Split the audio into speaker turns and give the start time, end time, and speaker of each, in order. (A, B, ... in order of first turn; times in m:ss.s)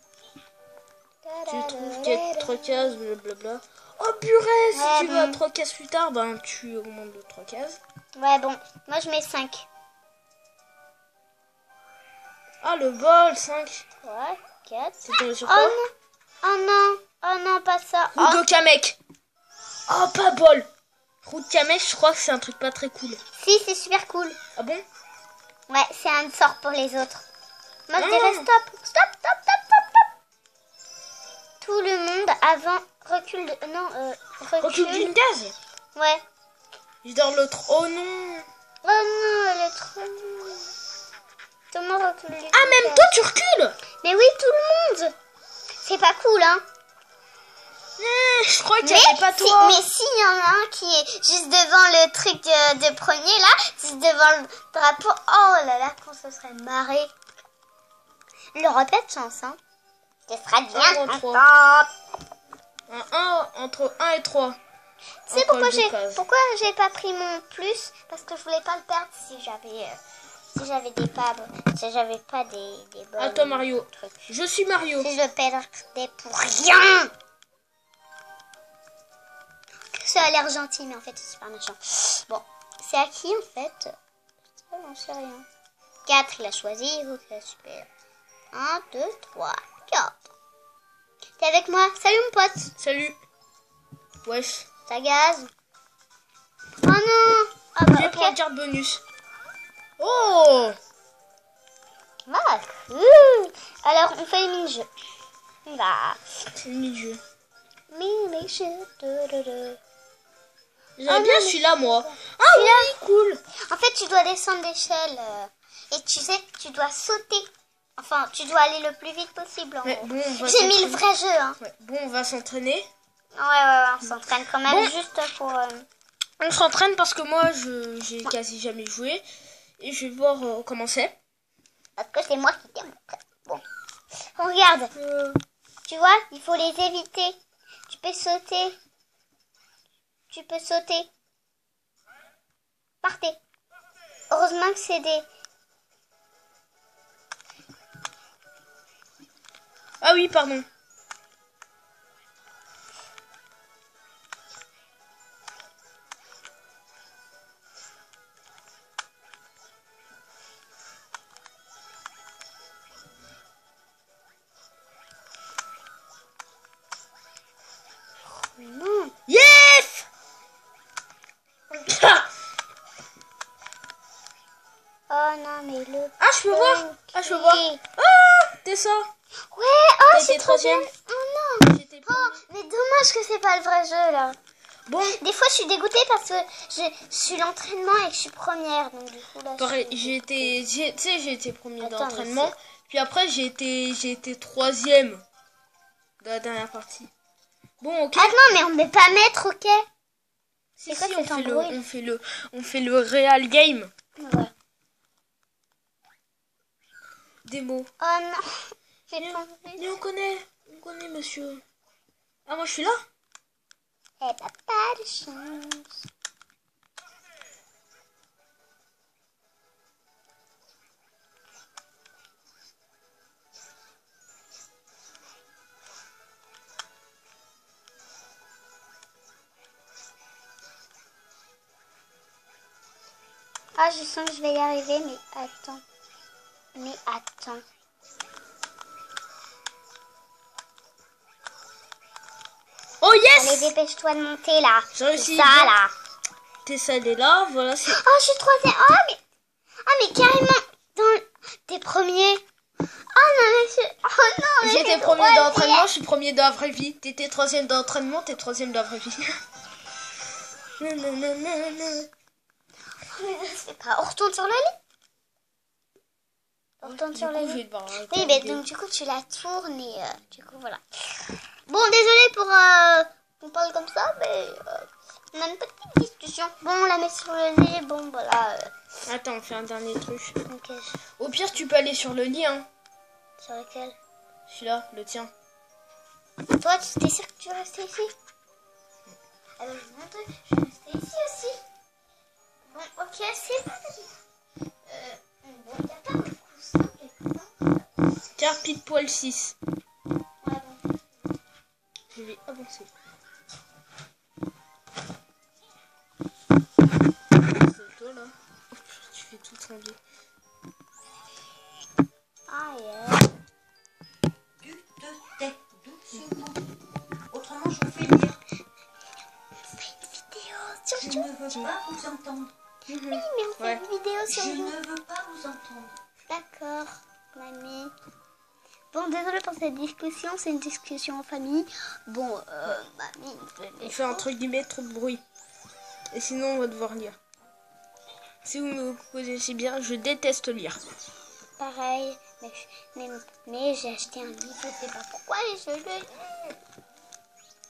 0:01.2-0:02.9 A
0:01.5-0:07.8 B
0:04.7-0:05.4 A
0:08.1-0:09.7 A
0:12.6-0:13.8 B
0:14.0-0:15.9 A
0:15.0-0:15.8 B
0:16.4-0:18.4 A
0:18.1-0:19.0 B
0:19.9-0:20.7 B
0:21.2-0:23.2 B
0:23.4-0:24.4 A
0:24.6-0:24.8 B
0:25.7-0:27.2 A
0:27.9-0:30.1 A
0:28.0-0:28.5 B
0:31.6-0:35.1 A
0:34.6-0:35.6 B
0:35.9-0:36.2 A
0:37.0-0:38.5 B
0:38.8-0:40.7 A
0:41.7-0:43.1 A
0:42.5-0:43.8 B
0:44.0-0:45.1 A
0:45.8-0:46.6 A
0:48.0-0:49.8 B
0:48.8-0:57.1 A
0:58.5-0:59.6 A
1:00.3-1:01.9 A
1:00.7-1:01.4 B
1:02.9-1:04.6 B
1:05.2-1:10.0 A
1:05.3-1:06.2 B
1:10.5-1:14.3 A
1:13.2-1:15.1 B
1:15.0-1:17.1 A
1:19.9-1:23.9 A
1:24.7-1:25.4 A
1:26.0-1:27.9 A
1:28.5-1:30.2 A
1:31.4-1:32.7 A
1:32.8-1:33.2 B
1:34.2-1:34.7 B
1:34.9-1:35.5 A
1:36.8-1:38.4 A
1:37.9-1:39.0 B
1:40.0-1:40.8 B
1:42.3-1:44.9 A
1:45.6-1:46.2 A
1:46.6-1:47.2 B
1:47.9-1:49.8 A
1:51.0-1:53.4 B
1:51.1-1:53.0 A
1:53.5-2:01.6 A
1:59.8-2:01.0 B
2:01.6-2:02.9 B
2:03.3-2:05.8 A
2:04.6-2:04.9 B
2:06.4-2:09.2 B
2:09.8-2:11.2 B
2:12.0-2:13.6 A
2:14.4-2:14.9 A
2:15.0-2:15.4 B
2:15.8-2:18.8 A
2:20.3-2:21.1 A
2:23.0-2:23.4 A
2:24.3-2:25.2 A
2:30.0-2:30.6 B
2:48.4-2:49.1 A
2:49.3-2:50.0 B
2:51.7-2:52.3 B
2:55.1-2:57.8 A
2:56.2-2:59.1 B
2:59.5-3:04.4 A
3:00.1-3:00.9 B
3:01.6-3:02.4 B
3:04.9-3:05.2 B
3:05.2-3:10.6 A
3:09.6-3:15.2 B
3:11.8-3:12.5 A
3:16.2-3:17.1 B
3:17.8-3:18.4 B
3:18.2-3:19.8 A
3:20.8-3:23.9 B
3:20.9-3:21.8 A
3:24.2-3:24.5 A
3:27.4-3:27.9 B
3:28.0-3:29.9 A
3:29.2-3:31.6 B
3:32.4-3:33.0 B
3:34.2-3:35.9 A
3:53.8-3:55.8 A
3:56.7-3:57.6 A
4:03.0-4:03.7 B
4:03.3-4:05.9 A
4:04.9-4:05.7 B
4:06.6-4:08.0 B
4:07.9-4:09.2 A
4:09.8-4:12.4 A
4:13.1-4:15.9 A
4:14.6-4:19.4 B
4:20.8-4:22.1 B
4:23.1-4:24.8 A
4:26.8-4:38.7 A
4:26.8-4:28.6 B
4:39.0-4:40.4 B
4:40.5-4:41.0 A
4:41.2-4:42.7 B
4:43.4-4:44.0 A
4:44.5-4:45.3 B
4:46.5-4:48.1 A
4:49.6-4:51.6 A
4:52.7-4:54.2 A
4:54.8-4:57.8 A
4:58.4-4:59.6 B
5:00.4-5:00.8 A
5:02.1-5:02.9 B
5:07.5-5:10.0 B
5:12.5-5:13.3 A
5:14.6-5:16.6 C
5:17.3-5:18.4 C
5:19.7-5:21.3 A
5:21.1-5:22.5 C
5:22.9-5:23.8 B
5:23.0-5:24.8 A
5:24.5-5:25.9 C
5:26.3-5:27.9 A
5:28.9-5:34.2 A
5:33.8-5:35.2 B
5:36.1-5:37.2 B
5:38.4-5:40.8 B
5:41.6-5:46.6 A